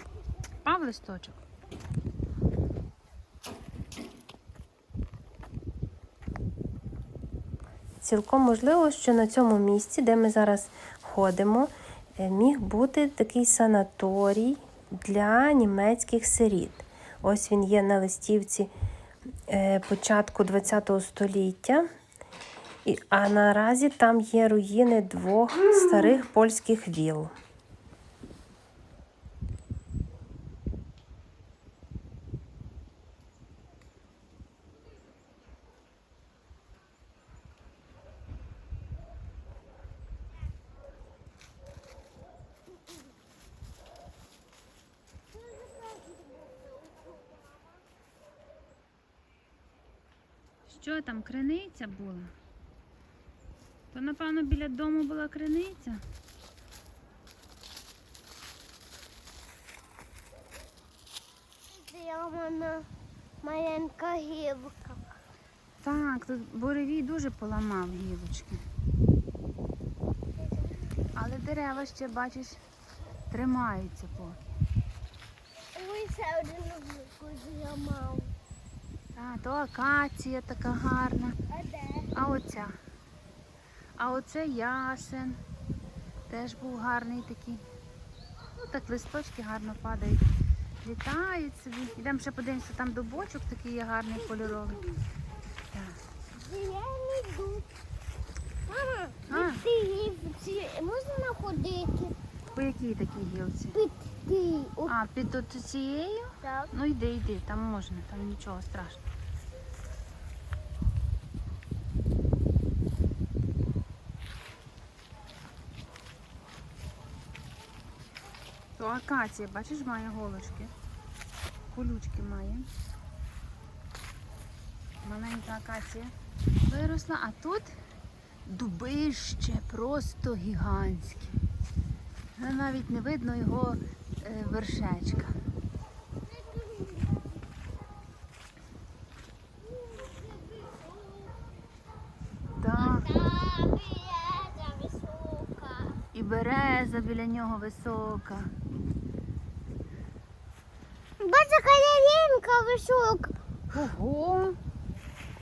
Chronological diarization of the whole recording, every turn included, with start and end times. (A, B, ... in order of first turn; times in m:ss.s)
0:00.6-0:01.4 A
0:08.0-0:18.7 B
0:19.5-0:21.8 B
0:22.8-0:27.3 B
0:45.3-0:47.8 C
0:50.6-0:52.3 A
0:53.9-0:56.0 A
1:01.7-1:02.9 C
1:03.4-1:05.2 C
1:05.8-1:08.6 A
1:11.2-1:12.6 A
1:13.3-1:14.4 A
1:15.7-1:18.3 C
1:19.1-1:21.4 A
1:21.5-1:22.1 C
1:22.1-1:22.8 A
1:24.0-1:25.4 A
1:26.3-1:27.6 A
1:28.6-1:30.2 A
1:30.8-1:34.8 A
1:34.2-1:35.0 C
1:35.7-1:36.0 A
1:36.3-1:37.7 C
1:38.7-1:42.1 C
1:39.3-1:39.6 A
1:42.5-1:43.8 A
1:43.7-1:44.9 C
1:44.9-1:49.0 A
1:46.4-1:46.7 C
1:58.8-2:00.7 A
2:01.7-2:02.7 A
2:05.0-2:06.1 A
2:06.7-2:07.8 A
2:08.4-2:11.4 A
2:12.4-2:15.4 A
2:16.3-2:17.4 C
2:19.7-2:21.4 C
2:22.6-2:23.1 A
2:22.8-2:26.0 C
2:26.1-2:28.5 A
2:31.2-2:33.3 C
2:33.7-2:34.6 A